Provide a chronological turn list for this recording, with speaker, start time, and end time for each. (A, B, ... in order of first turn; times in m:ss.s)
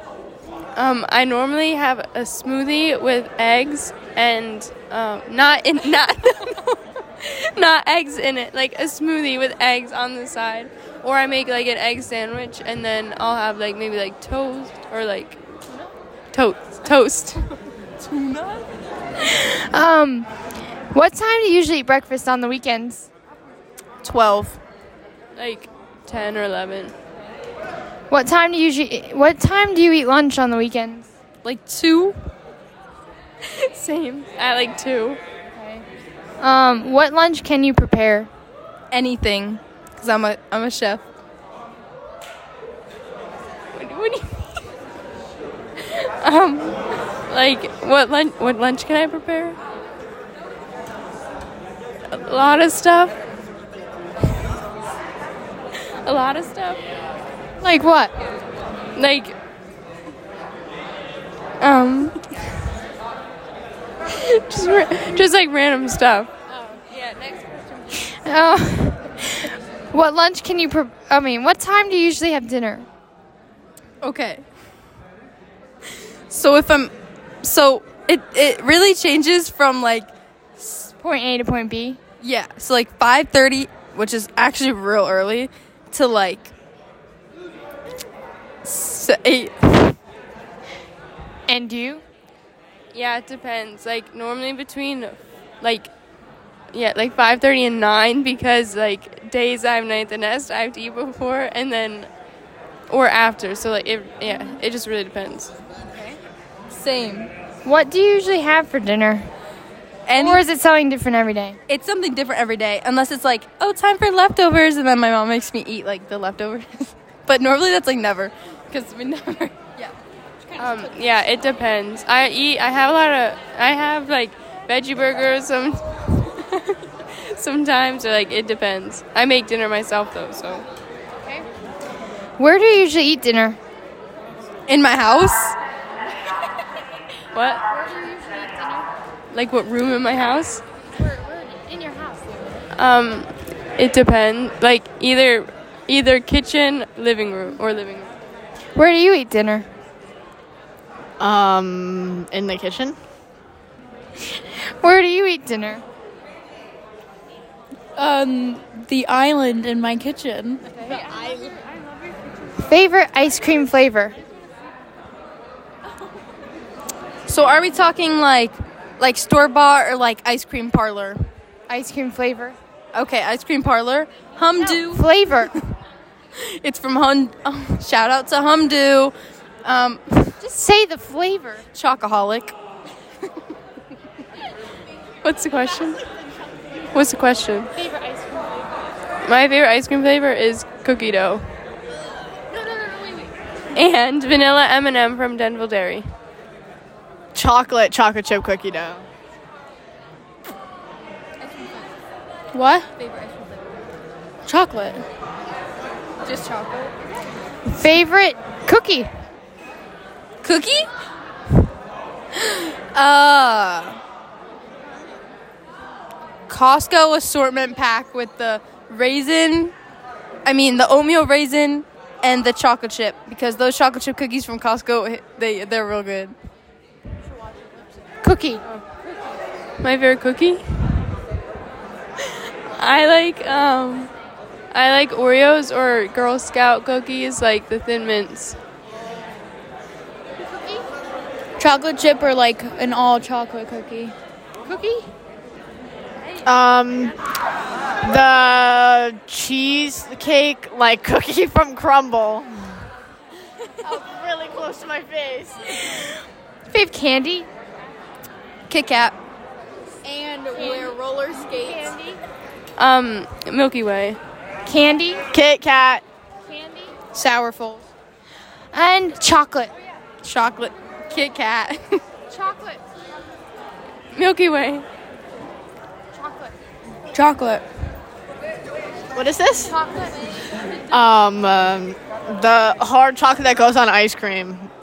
0:00.8-0:15.4 A
0:16.3-0:17.5 A
0:18.0-0:18.6 B
0:19.2-0:20.3 C
0:20.9-0:23.1 C
0:24.0-0:24.6 B
0:25.4-0:26.9 A
0:28.1-0:31.1 C
0:31.4-0:32.2 B
0:33.4-0:35.2 A
0:35.6-0:35.8 C
0:36.4-0:38.3 C
0:38.9-0:41.0 B
0:43.7-0:44.5 A
0:45.8-0:49.6 A
0:52.1-0:53.2 A
0:56.0-0:56.8 A
0:57.6-0:58.1 C
0:59.0-0:59.4 A
1:01.6-1:02.0 B
1:04.0-1:07.8 A
1:07.9-1:12.9 C
1:14.0-1:14.4 B
1:16.3-1:16.9 B
1:17.4-1:20.9 B
1:21.0-1:22.0 C
1:22.2-1:26.5 B
1:28.6-1:30.0 B
1:31.5-1:32.0 C
1:32.9-1:35.9 A
1:36.7-1:42.1 A
1:42.9-1:45.5 A
1:46.7-1:47.3 B
1:47.6-1:49.3 C
1:50.1-1:50.4 B
1:50.2-1:51.6 C
1:51.7-1:59.9 B
2:00.5-2:10.7 A
2:12.4-2:13.6 C
2:14.7-2:15.6 B
2:17.3-2:17.6 A
2:17.7-2:18.9 C
2:19.3-2:20.6 A
2:21.0-2:22.6 C
2:22.8-2:28.1 A
2:28.8-2:29.7 C
2:31.2-2:33.0 D
2:34.4-2:35.8 C
2:38.0-2:40.8 B
2:40.8-2:42.2 A
2:42.5-2:44.2 C
2:47.3-2:51.2 B
2:51.7-2:52.6 C
2:52.9-2:55.6 B
2:54.7-2:55.5 C
2:56.4-2:59.1 B
2:59.6-3:00.4 B
3:00.4-3:01.6 C
3:01.7-3:02.5 B
3:05.2-3:06.1 A
3:06.9-3:07.7 A
3:07.8-3:08.8 C
3:09.2-3:11.5 A
3:13.7-3:16.1 A
3:17.3-3:19.0 D
3:22.6-3:22.8 C
3:24.5-3:25.0 B
3:26.2-3:26.9 B
3:27.7-3:29.1 C
3:30.4-3:30.9 B
3:32.3-3:34.0 B
3:36.5-3:39.7 B
3:40.4-3:46.3 B
3:48.2-3:48.6 C
3:49.8-3:51.1 A
3:52.8-3:54.1 A
3:54.7-3:58.6 A
4:01.6-4:04.1 E
4:04.6-4:05.1 C
4:06.4-4:07.2 D
4:08.0-4:12.8 D
4:13.8-4:15.8 D
4:15.8-4:16.2 C
4:16.7-4:17.5 C
4:18.7-4:19.2 B
4:20.0-4:21.0 D
4:20.6-4:21.9 B
4:21.6-4:22.2 C
4:22.8-4:24.2 A
4:24.6-4:25.2 C
4:25.3-4:26.0 D
4:26.4-4:27.0 C
4:27.1-4:27.8 B
4:28.7-4:29.7 C
4:30.2-4:32.0 B
4:32.3-4:32.8 C
4:34.1-4:34.8 A
4:36.1-4:36.6 C
4:37.1-4:37.6 B
4:39.2-4:39.8 D
4:39.8-4:40.2 C
4:40.9-4:44.7 D